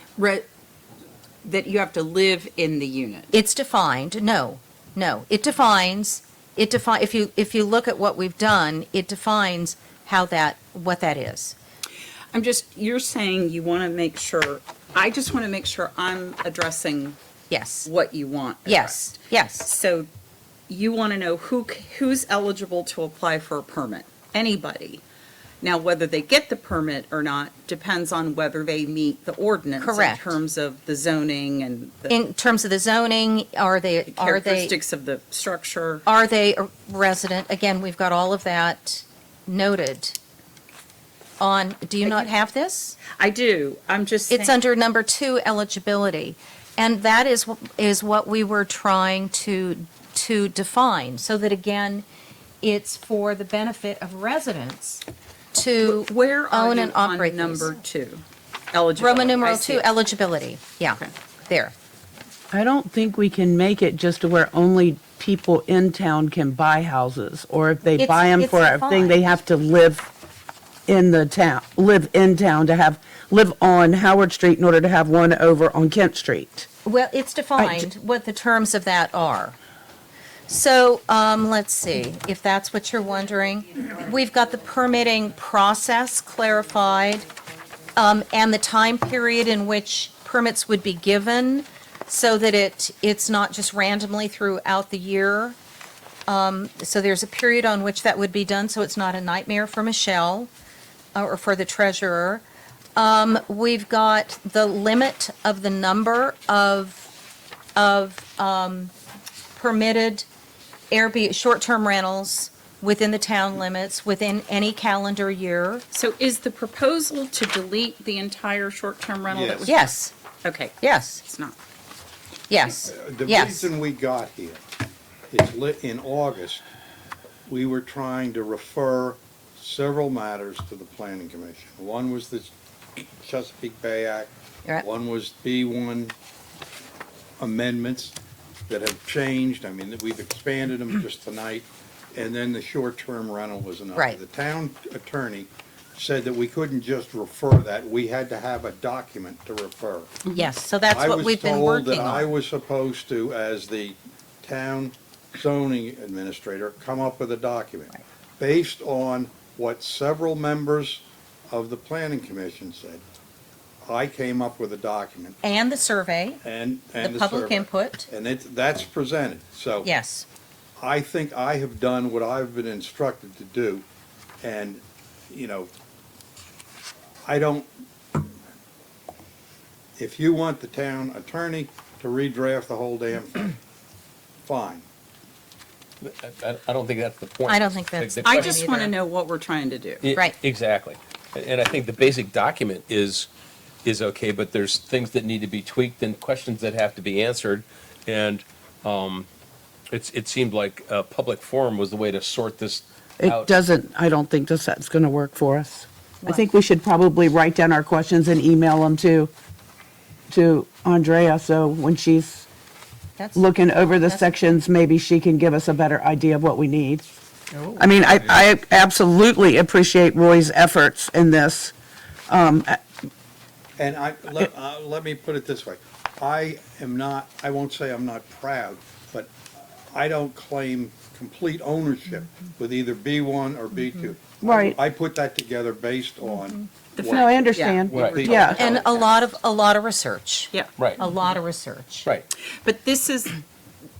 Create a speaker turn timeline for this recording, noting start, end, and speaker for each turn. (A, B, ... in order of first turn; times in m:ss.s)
0:00.2-0:00.4 A
0:01.4-0:03.3 A
0:03.3-0:11.6 B
0:12.3-0:17.2 A
0:17.5-0:17.9 B
0:17.8-0:19.1 A
0:18.6-0:19.7 B
0:19.6-0:20.1 A
0:20.7-0:25.0 A
0:25.6-0:32.2 A
0:29.8-0:30.4 B
0:32.1-0:34.7 B
0:34.1-0:36.0 A
0:36.0-0:40.2 B
0:41.4-0:43.0 B
0:43.2-0:44.6 A
0:44.3-0:52.0 B
0:52.6-0:55.0 B
0:55.5-0:57.8 B
0:55.8-0:59.8 A
0:59.0-1:01.7 B
1:02.5-1:10.1 C
1:08.0-1:09.2 B
1:10.9-1:16.7 C
1:16.8-1:19.6 B
1:17.6-1:17.9 C
1:20.5-1:27.2 B
1:28.0-1:35.6 B
1:36.3-1:40.5 B
1:41.1-1:42.4 B
1:43.0-1:47.1 B
1:47.8-1:48.9 B
1:49.5-1:50.3 B
1:50.9-1:55.8 B
1:55.9-1:59.9 A
1:59.3-1:59.7 D
1:59.6-2:00.1 B
2:00.4-2:01.6 A
2:00.8-2:01.2 B
2:02.5-2:03.7 B
2:02.8-2:04.6 D
2:05.3-2:06.6 D
2:07.5-2:16.1 D
2:17.4-2:18.1 D
2:18.7-2:30.1 D
2:30.3-2:32.3 B
2:30.9-2:43.0 D
2:43.8-2:45.4 D
2:45.4-2:46.4 B
2:46.4-2:49.9 D
2:47.0-2:48.1 B
2:49.8-2:50.2 B
2:50.8-2:53.8 D
2:54.4-2:55.7 D
2:57.2-2:57.7 D
3:00.0-3:03.6 D
3:04.4-3:04.8 D
3:06.0-3:08.6 E
3:07.5-3:08.9 B
3:08.2-3:10.0 A
3:10.0-3:13.3 E
3:13.8-3:19.3 E
3:19.9-3:23.6 E
3:23.2-3:29.3 C
3:30.3-3:32.5 C
3:33.2-3:34.4 B
3:33.3-3:37.1 C
3:37.7-3:41.7 C
3:42.3-3:42.8 C
3:43.8-3:58.9 D
3:54.4-3:54.8 C
3:57.0-3:59.1 A
3:57.0-3:58.6 C
3:57.9-3:58.2 E
3:58.3-4:02.1 B
4:00.8-4:01.0 E
4:02.6-4:03.4 A